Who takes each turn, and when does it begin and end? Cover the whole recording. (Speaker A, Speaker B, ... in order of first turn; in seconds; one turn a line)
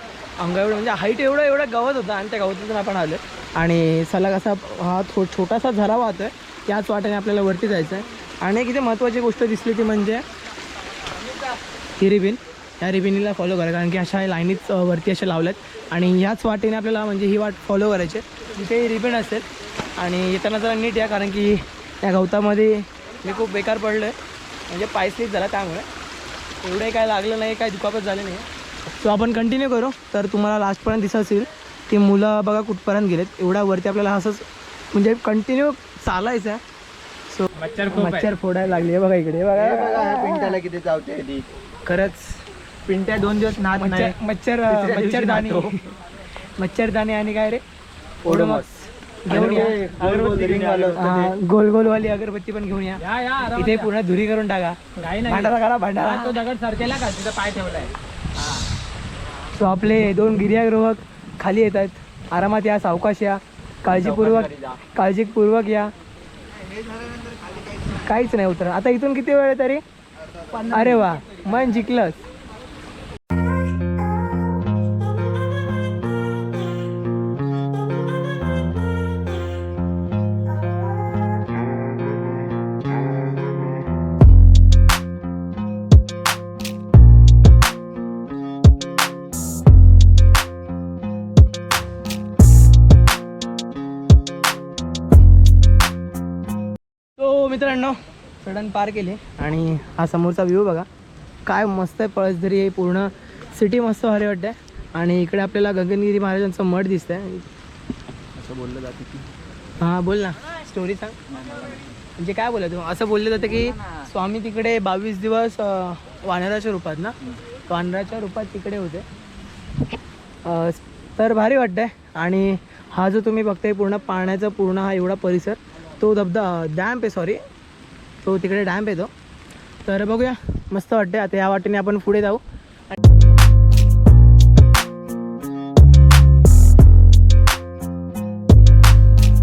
Speaker A: 0.4-10.2
Speaker A: 11.9-24.1
Speaker A: 24.7-25.9
Speaker A: 26.6-36.6
Speaker A: 37.3-40.6
Speaker B: 37.5-38.3
Speaker C: 39.5-41.5
Speaker A: 41.8-42.4
Speaker C: 42.9-44.1
Speaker A: 43.8-47.6
Speaker C: 44.7-45.7
Speaker C: 48.2-48.7
Speaker A: 48.2-56.4
Speaker C: 49.3-51.3
Speaker B: 53.0-53.9
Speaker B: 55.0-57.9
Speaker A: 59.5-65.9
Speaker C: 64.0-64.7
Speaker A: 67.9-69.8
Speaker A: 70.6-72.2
Speaker A: 97.2-100.9
Speaker A: 101.4-107.5
Speaker C: 108.3-109.2
Speaker A: 109.8-111.2
Speaker C: 111.5-111.8
Speaker A: 112.2-117.2
Speaker A: 117.7-119.0
Speaker A: 120.4-127.4
Speaker A: 128.2-129.1
Speaker A: 129.8-133.0